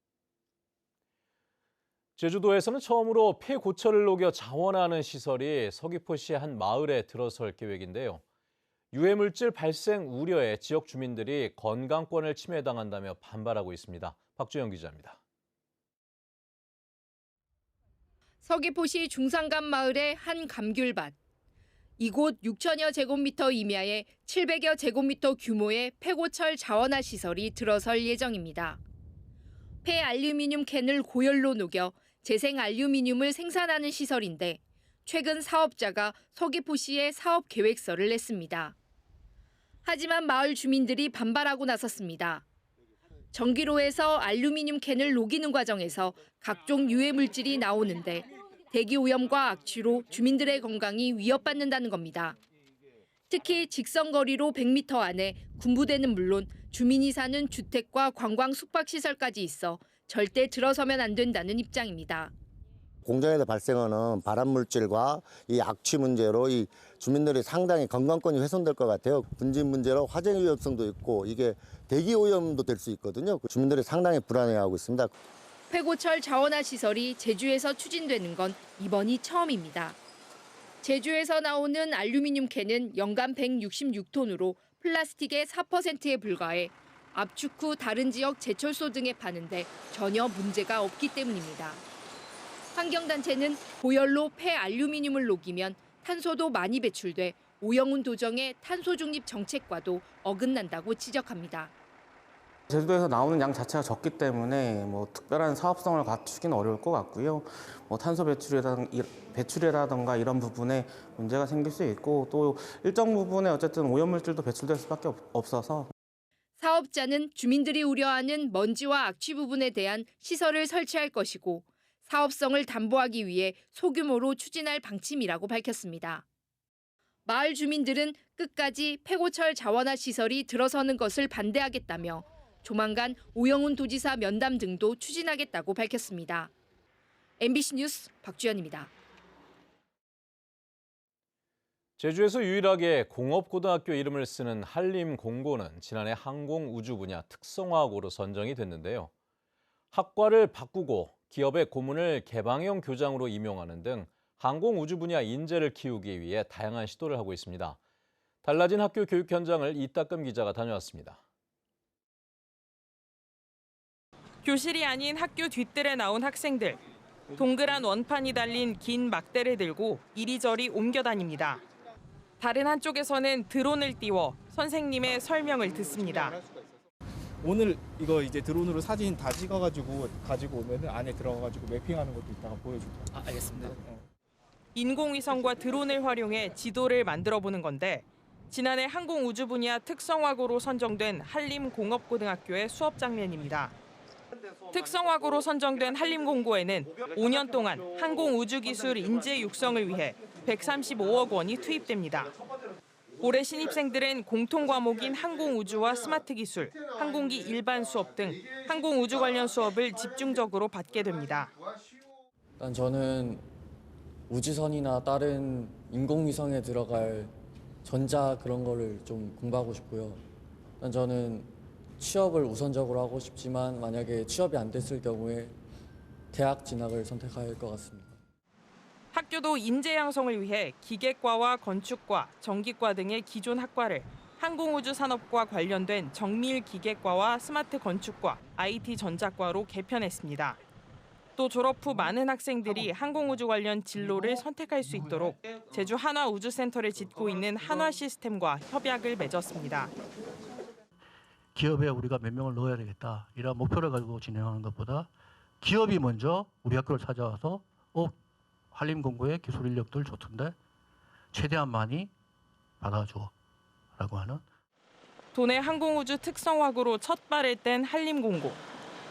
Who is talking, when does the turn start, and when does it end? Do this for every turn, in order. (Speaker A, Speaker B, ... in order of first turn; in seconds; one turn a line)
Speaker A: 2.2-8.2
Speaker A: 8.9-15.2
Speaker B: 18.4-21.1
Speaker B: 22.0-28.8
Speaker B: 29.8-38.7
Speaker B: 39.8-42.4
Speaker B: 43.3-52.4
Speaker B: 53.3-62.3
Speaker C: 63.0-75.1
Speaker B: 75.7-80.0
Speaker B: 80.8-91.8
Speaker B: 92.7-101.7
Speaker D: 102.7-115.9
Speaker B: 116.6-126.2
Speaker B: 127.2-136.5
Speaker B: 137.4-138.9
Speaker A: 142.0-149.1
Speaker A: 149.9-157.8
Speaker A: 158.4-161.2
Speaker E: 164.4-166.8
Speaker E: 167.4-171.6
Speaker E: 172.4-176.3
Speaker F: 177.4-183.9
Speaker E: 184.7-193.7
Speaker E: 194.7-202.3
Speaker E: 203.2-211.5
Speaker G: 212.6-213.4
Speaker G: 214.3-217.3
Speaker G: 217.8-220.2
Speaker G: 220.8-225.5
Speaker G: 226.3-228.2
Speaker E: 229.1-240.6
Speaker E: 241.4-249.9
Speaker H: 251.5-255.1
Speaker H: 255.6-258.1
Speaker H: 258.7-260.6
Speaker H: 261.3-262.1
Speaker H: 262.8-263.3
Speaker H: 263.9-264.4
Speaker E: 265.3-268.6